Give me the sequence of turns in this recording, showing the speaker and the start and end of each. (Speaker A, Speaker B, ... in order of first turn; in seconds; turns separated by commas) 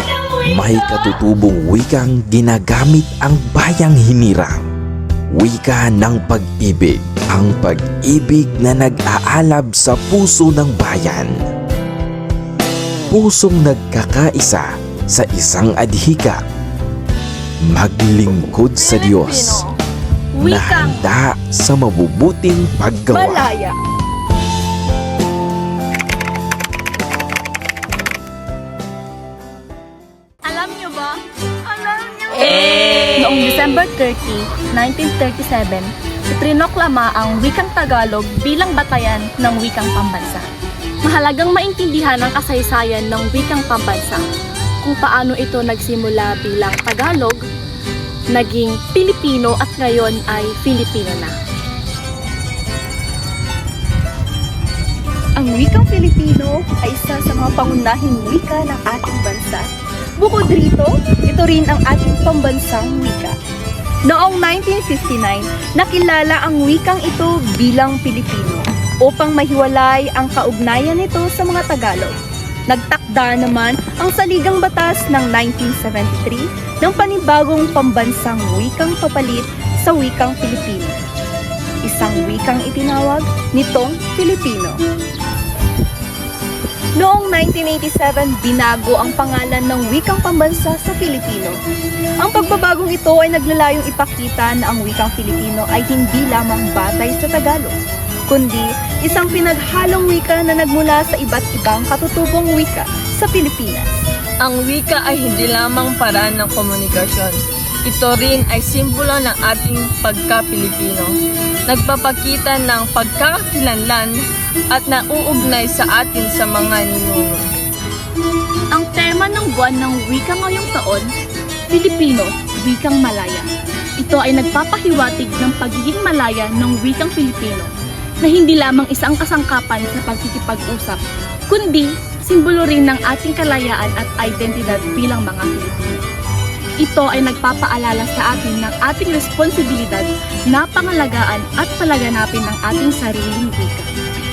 Speaker A: 0.4-4.7, Speaker A: 5.3-11.3, Speaker A: 13.1-16.4, Speaker A: 17.6-19.6, Speaker B: 18.8-19.7, Speaker C: 20.3-21.1, Speaker A: 20.4-23.5, Speaker D: 23.1-23.8, Speaker C: 30.4-40.5, Speaker B: 32.4-33.3, Speaker C: 41.0-44.2, Speaker C: 44.8-47.4, Speaker C: 48.3-51.3, Speaker D: 55.4-63.4, Speaker D: 64.0-72.1, Speaker D: 72.7-81.0, Speaker D: 81.8-84.8, Speaker D: 87.0-91.6, Speaker D: 92.2-97.7, Speaker D: 98.3-103.9, Speaker B: 104.4-111.1, Speaker B: 111.7-114.2, Speaker B: 114.7-117.5, Speaker C: 118.7-121.1, Speaker C: 121.7-123.5, Speaker C: 124.0-127.7, Speaker C: 128.2-136.0, Speaker C: 136.8-143.9